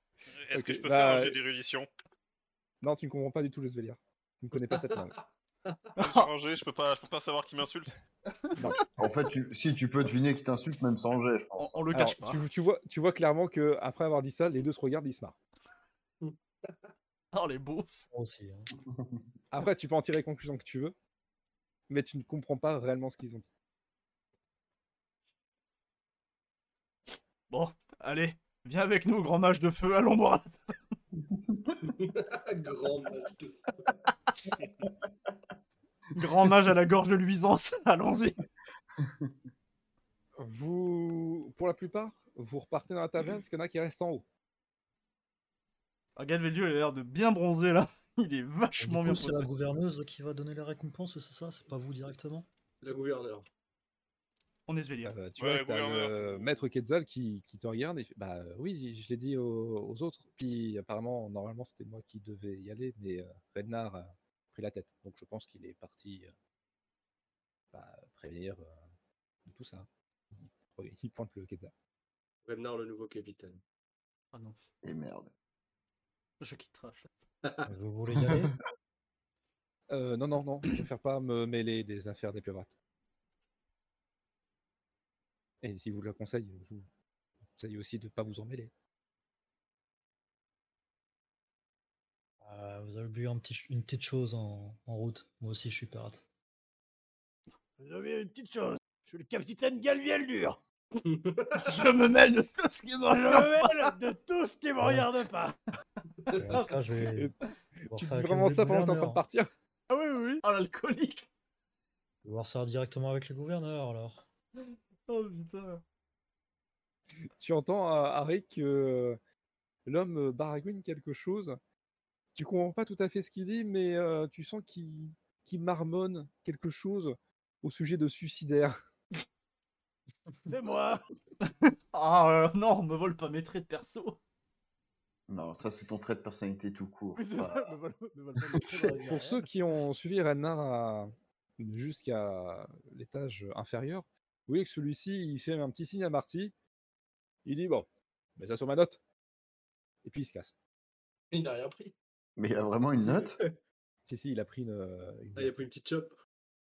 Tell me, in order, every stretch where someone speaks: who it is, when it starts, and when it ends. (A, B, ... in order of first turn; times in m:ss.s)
0:00.4-0:01.9 A
0:00.5-0:01.4 B
0:02.8-0:05.2 B
0:04.7-0:05.8 C
0:06.0-0:07.9 A
0:06.0-0:06.3 D
0:09.0-0:11.8 E
0:11.6-0:12.4 D
0:11.9-0:15.4 B
0:16.2-0:16.9 C
0:17.3-0:18.0 D
0:18.1-0:18.7 F
0:18.9-0:19.2 E
0:19.5-0:20.9 B
0:21.9-0:23.5 B
0:27.5-0:30.8 D
0:31.3-0:31.7 E
0:31.8-0:33.9 C
0:36.2-0:38.4 D
0:39.0-0:39.3 E
0:40.4-0:44.2 B
0:46.2-0:49.5 D
0:48.8-0:52.5 F
0:52.8-0:53.5 C
0:54.7-0:55.2 D
0:55.0-1:06.3 B
0:55.4-0:56.6 A
1:07.7-1:08.8 B
1:09.4-1:11.7 B
1:12.4-1:13.6 C
1:14.8-1:15.3 E
1:16.4-1:17.0 D
1:17.7-1:18.5 F
1:19.9-1:22.7 B
1:25.6-1:26.9 B
1:27.5-1:28.7 B
1:32.4-1:36.2 F
1:37.8-1:40.6 G
1:41.0-1:41.8 C
1:41.6-1:43.9 D
1:43.1-1:45.6 G
1:44.8-1:45.1 F
1:46.4-1:47.3 F
1:47.1-1:49.5 B
1:47.9-1:49.2 F
1:49.9-1:50.4 G
1:50.4-1:51.3 D
1:52.2-1:54.2 F
1:55.1-1:55.8 D
1:57.4-1:59.2 B
1:59.8-2:01.6 B
2:02.3-2:08.8 B
2:10.5-2:11.0 G
2:11.4-2:14.2 D
2:15.3-2:17.7 E
2:17.2-2:19.5 G
2:18.5-2:19.0 E
2:19.1-2:26.5 B
2:27.4-2:29.0 B
2:30.0-2:30.5 B
2:31.3-2:31.9 C
2:32.4-2:33.4 E
2:32.9-2:33.6 C
2:34.0-2:35.5 B
2:35.4-2:36.1 C